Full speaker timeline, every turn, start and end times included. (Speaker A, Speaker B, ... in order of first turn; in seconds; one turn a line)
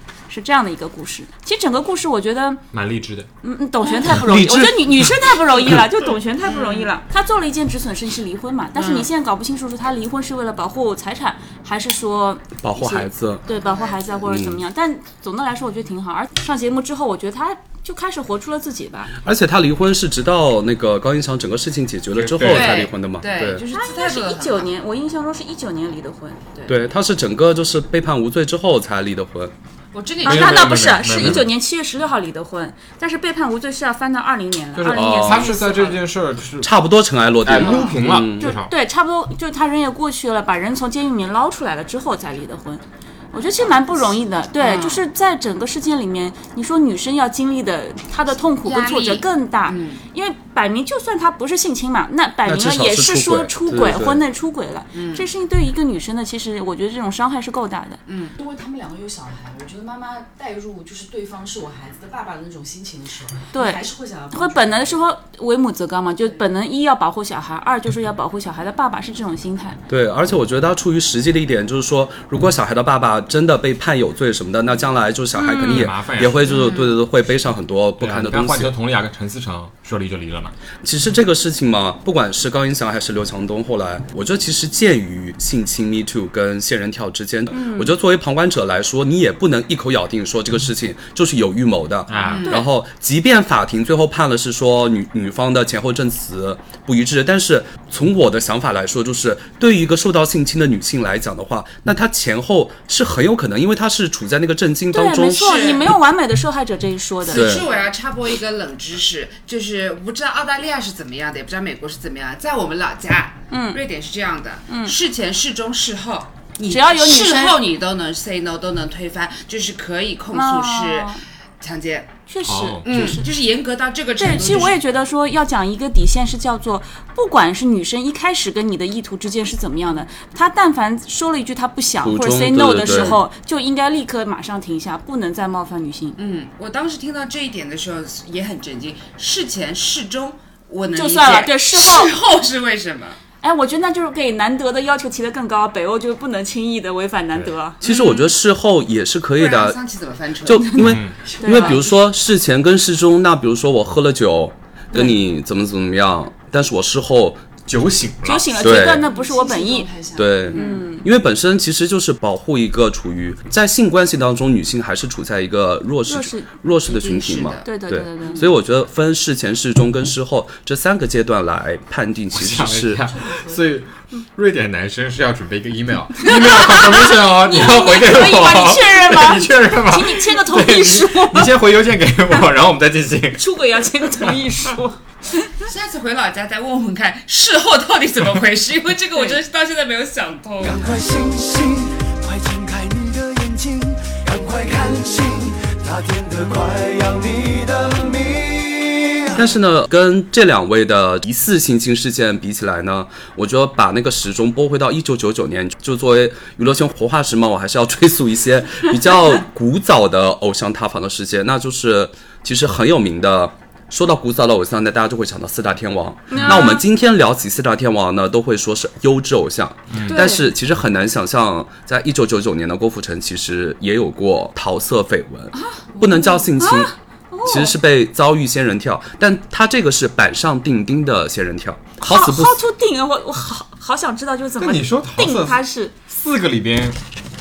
Speaker A: 0.3-2.6
Speaker B: 2.7-3.3
Speaker A: 3.4-19.1
Speaker C: 4.0-5.8
Speaker D: 6.5-6.9
Speaker D: 8.8-9.1
Speaker C: 12.6-13.5
Speaker D: 13.5-14.2
Speaker C: 14.2-14.6
Speaker C: 19.2-23.6
Speaker B: 22.1-22.9
Speaker D: 22.4-24.7
Speaker A: 23.7-26.7
Speaker C: 26.7-29.5
Speaker D: 29.9-30.8
Speaker B: 30.2-31.5
Speaker A: 30.2-36.0
Speaker B: 34.8-36.7
Speaker C: 34.9-35.5
Speaker C: 36.6-38.6
Speaker B: 37.4-38.7
Speaker D: 37.6-37.9
Speaker A: 38.4-58.0
Speaker D: 44.6-45.0
Speaker D: 48.6-50.0
Speaker C: 52.5-54.2
Speaker D: 54.9-55.3
Speaker D: 58.1-58.4
Speaker E: 58.4-65.0
Speaker A: 63.5-69.8
Speaker C: 69.9-78.7
Speaker A: 75.3-75.9
Speaker B: 75.6-76.6
Speaker D: 76.5-77.0
Speaker B: 78.0-80.5
Speaker C: 80.8-105.7
Speaker A: 87.5-88.0
Speaker B: 92.1-92.5
Speaker D: 92.2-92.6
Speaker A: 92.4-92.7
Speaker A: 104.9-107.6
Speaker D: 105.4-105.8
Speaker D: 107.2-122.1
Speaker C: 107.3-107.7
Speaker A: 113.5-113.8
Speaker A: 114.7-115.0
Speaker A: 116.7-117.6
Speaker A: 120.3-121.2
Speaker A: 122.3-123.3
Speaker B: 122.5-123.2
Speaker D: 122.8-124.8
Speaker A: 124.2-136.2
Speaker C: 132.0-133.2
Speaker D: 136.2-143.2
Speaker A: 140.9-142.1
Speaker A: 143.4-147.8
Speaker D: 147.8-148.3
Speaker C: 147.8-149.8
Speaker D: 149.4-150.7
Speaker C: 150.4-157.4
Speaker A: 150.6-151.8
Speaker B: 150.8-151.2
Speaker E: 151.2-151.9
Speaker B: 157.7-158.5
Speaker A: 158.2-159.9
Speaker C: 158.6-159.1
Speaker E: 158.8-160.6
Speaker C: 160.2-173.1
Speaker A: 160.5-161.1
Speaker D: 160.5-160.8
Speaker A: 166.1-166.5
Speaker D: 166.9-167.7
Speaker A: 167.6-168.5
Speaker B: 172.3-183.4
Speaker E: 173.1-173.8
Speaker A: 176.2-181.6
Speaker A: 183.3-185.5
Speaker D: 185.7-190.9
Speaker F: 190.6-199.4
Speaker C: 199.3-226.9
Speaker A: 216.3-216.8
Speaker B: 219.9-220.3
Speaker A: 220.1-220.5
Speaker A: 225.5-227.8
Speaker C: 227.5-232.6
Speaker A: 232.0-235.9
Speaker B: 234.6-237.0